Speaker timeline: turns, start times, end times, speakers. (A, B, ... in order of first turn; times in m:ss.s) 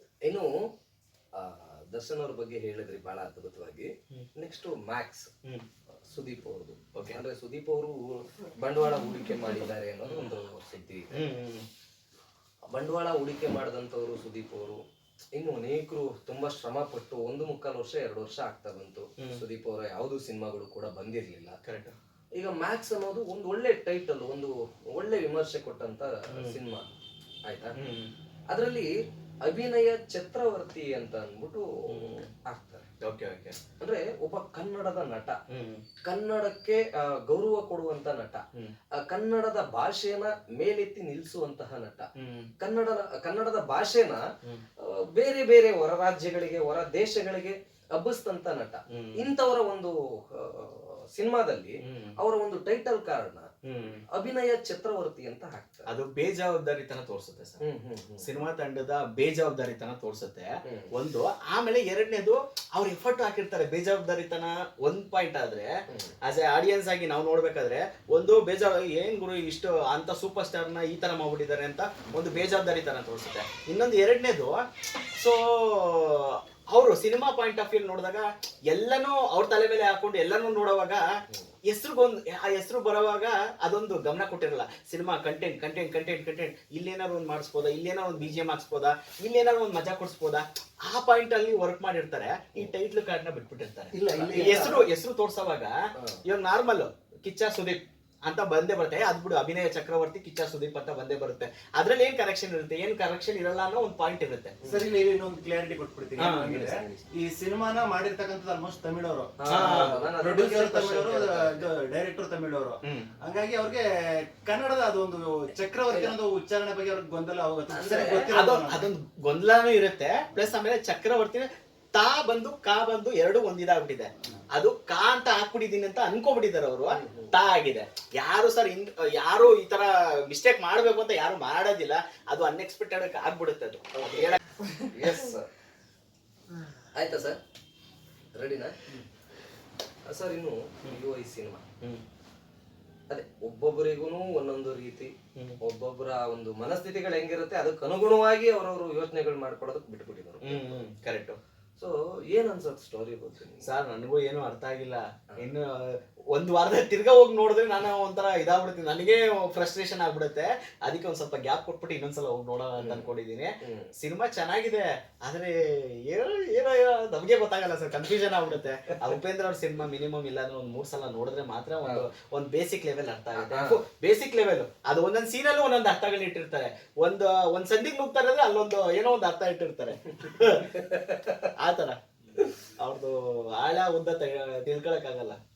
0:00.2-0:00.5 A
0:01.4-0:05.3 A
0:06.1-0:11.3 A
0:06.9-0:07.2 B
0:10.1-0:10.3 B
0:11.1-0:11.6 B
0:12.7-0:14.8 A
0:15.4-0:21.6 A
0:21.6-0:21.9 B
0:22.4-0:26.8 A
0:26.3-0:26.6 B
0:27.5-0:27.8 A
0:27.8-0:28.1 B
0:28.5-0:28.9 A
0:29.4-0:32.9 A
0:31.9-0:32.3 B
0:33.0-0:33.6 B
0:33.8-0:35.4 A
0:35.5-0:35.9 B
0:36.0-0:38.4 A
0:39.0-0:42.1 A
0:42.2-0:42.5 B
0:42.6-0:44.2 A
0:44.8-0:53.5 A
0:48.9-0:49.3 B
0:51.8-0:52.2 B
0:53.6-0:54.0 B
0:54.1-0:55.9 A
0:55.9-0:57.6 B
0:57.6-0:58.3 A
0:58.2-1:05.7 B
1:00.7-1:00.9 A
1:06.2-1:14.6 B
1:12.1-1:12.4 A
1:15.2-1:21.0 B
1:21.7-1:35.7 B
1:33.9-1:34.8 C
1:34.1-1:34.8 A
1:36.2-1:44.6 B
1:44.6-1:44.9 A
1:44.7-1:58.9 C
1:46.2-1:46.8 B
1:49.4-1:51.7 A
1:49.5-1:50.0 B
1:55.9-1:56.2 A
1:57.7-1:58.3 A
1:58.2-2:14.4 B
2:06.9-2:07.4 A
2:14.0-2:15.5 A
2:17.0-2:17.4 A
2:18.4-2:18.8 A
2:20.1-2:21.6 A
2:23.1-2:30.8 A
2:30.4-2:31.4 B
2:31.8-2:33.7 A
2:33.6-2:45.5 B
2:42.8-2:43.1 A
2:43.6-2:43.9 A
2:46.1-3:00.8 B
2:53.4-2:53.8 A
3:00.1-3:01.5 A
3:01.6-3:02.0 B
3:02.8-3:05.4 B